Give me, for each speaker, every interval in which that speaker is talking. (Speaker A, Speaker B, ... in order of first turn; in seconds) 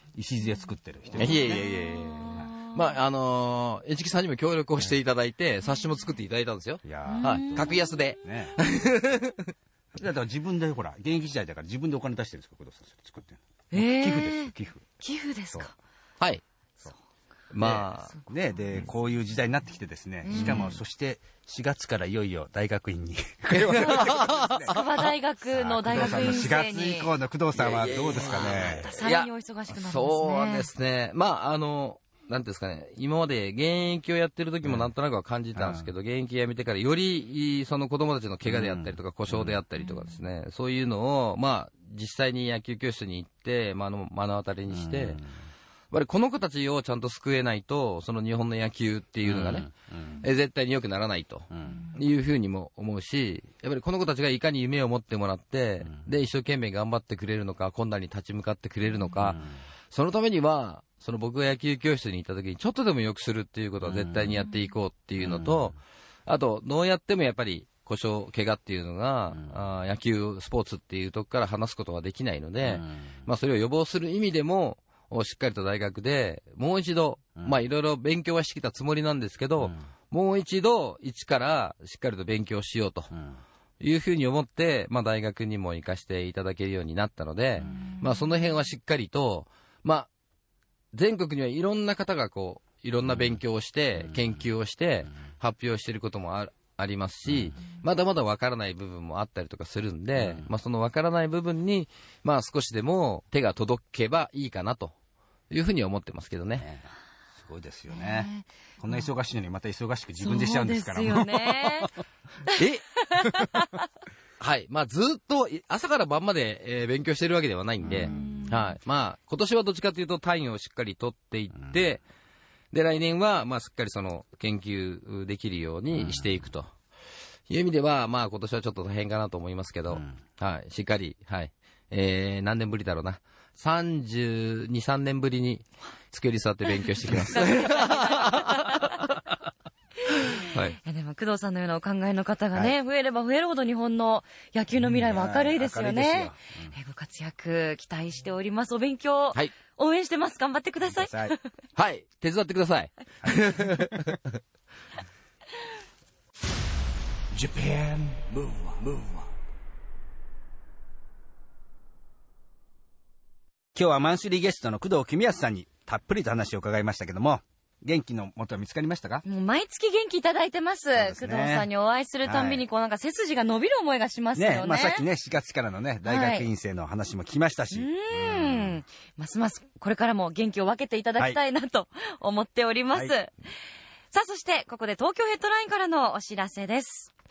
Speaker A: 0.1-1.7, 6.8-8.6, 9.9-15.0, 17.6-24.8, 25.5-28.9, 34.6-34.9, 35.6-35.9, 38.5-39.6, 44.7-45.4, 49.2-50.2, 51.5-51.9, 59.2-59.6, 63.8-64.4, 65.2-65.8, 69.3-69.6, 72.6-73.3, 77.4-77.6, 79.6-79.9, 83.1-83.4, 87.6-88.0, 93.1-93.4, 94.0-94.4, 97.3-97.6, 100.2-100.5, 106.6-111.8, 117.8-118.5, 125.9-126.5, 144.8-146.8, 150.8-151.3, 153.2-154.0, 163.8-169.2, 170.9-171.7, 172.2-172.6, 174.3-178.8
Speaker B: 1.2-9.5, 17.5-18.1, 20.4-20.7, 23.5-24.8, 27.5-45.2, 45.9-83.1, 83.8-90.1, 90.9-104.9, 105.5-106.7, 112.6-112.8, 114.4-122.0, 122.7-126.7, 127.5-138.7, 140.4-140.8, 151.8-154.3
Speaker C: 1.4-2.8, 7.0-7.7, 13.7-15.7, 18.1-18.9, 20.2-20.8, 24.7-27.1, 28.2-30.7, 87.8-88.0, 107.9-109.1, 110.2-111.9, 112.5-113.8, 117.9-118.8, 137.3-138.8, 140.8-151.5, 169.3-175.1, 176.0-176.5, 177.7-183.3, 184.1-187.1
Speaker D: 157.3-159.3